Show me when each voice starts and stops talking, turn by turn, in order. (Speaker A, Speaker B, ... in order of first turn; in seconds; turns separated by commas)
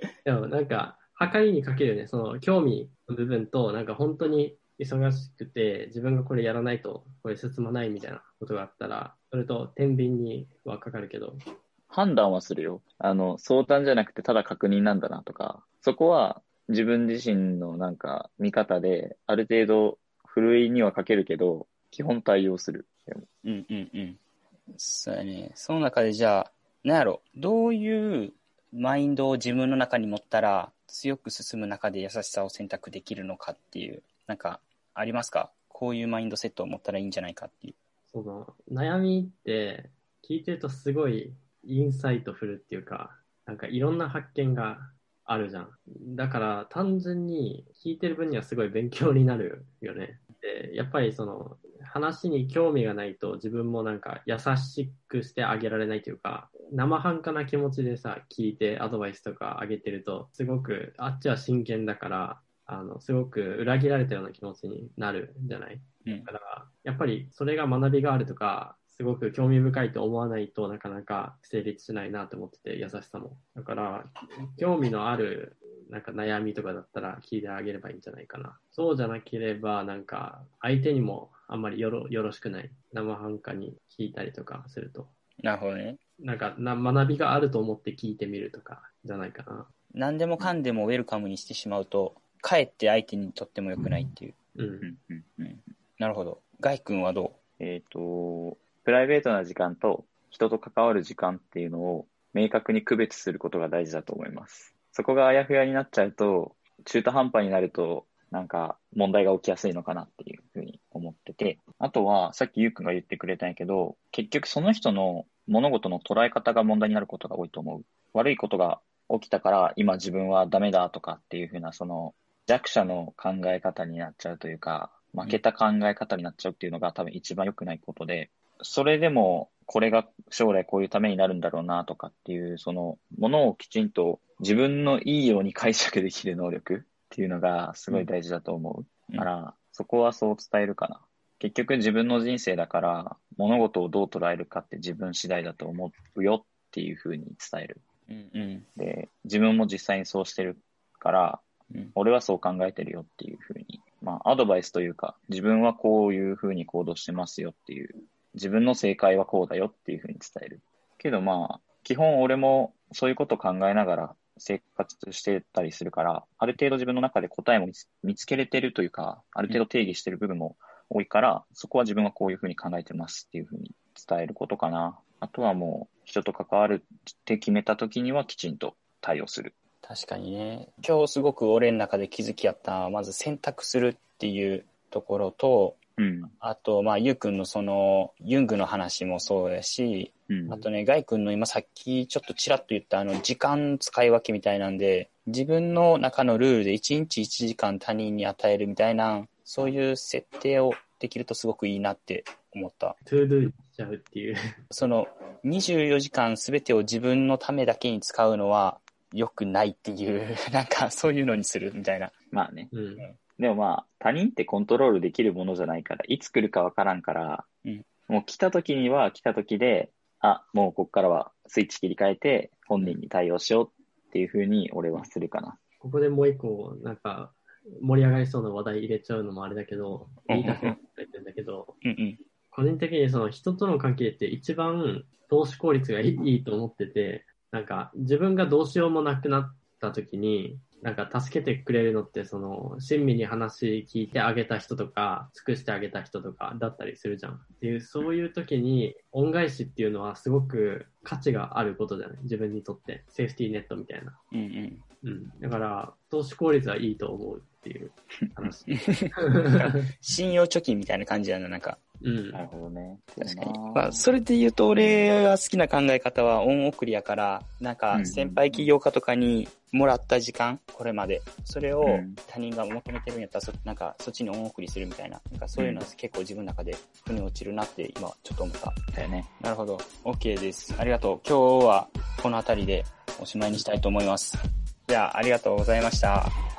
Speaker A: 0.2-11.4, Speaker B: 11.9-23.2, Speaker C: 23.4-24.2, Speaker C: 24.7-37.7, Speaker A: 38.1-85.1, Speaker C: 85.4-86.0, Speaker A: 86.2-89.7, Speaker C: 89.9-94.3, Speaker A: 94.5-94.9, Speaker B: 94.8-95.5, Speaker C: 95.5-97.3, Speaker B: 97.6-147.8, Speaker C: 148.1-148.7, Speaker B: 148.8-151.4, Speaker B: 151.9-179.5, Speaker C: 179.8-185.8, Speaker B: 186.0-186.3, Speaker C: 186.4-202.9, Speaker A: 203.1-204.4, Speaker C: 204.7-212.1, Speaker B: 212.3-212.7, Speaker A: 212.7-213.0, Speaker B: 213.4-217.4, Speaker B: 218.1-225.6, Speaker A: 225.8-231.7, Speaker C: 230.3-230.8, Speaker C: 231.8-232.2, Speaker A: 232.5-254.2, Speaker C: 254.3-254.8, Speaker A: 255.0-259.8, Speaker C: 258.7-261.8, Speaker A: 262.0-262.4, Speaker B: 262.3-264.1, Speaker C: 263.1-278.8, Speaker B: 264.8-265.0, Speaker B: 267.9-268.4, Speaker B: 271.8-272.2, Speaker B: 275.6-275.8, Speaker B: 278.9-279.3, Speaker C: 279.4-286.3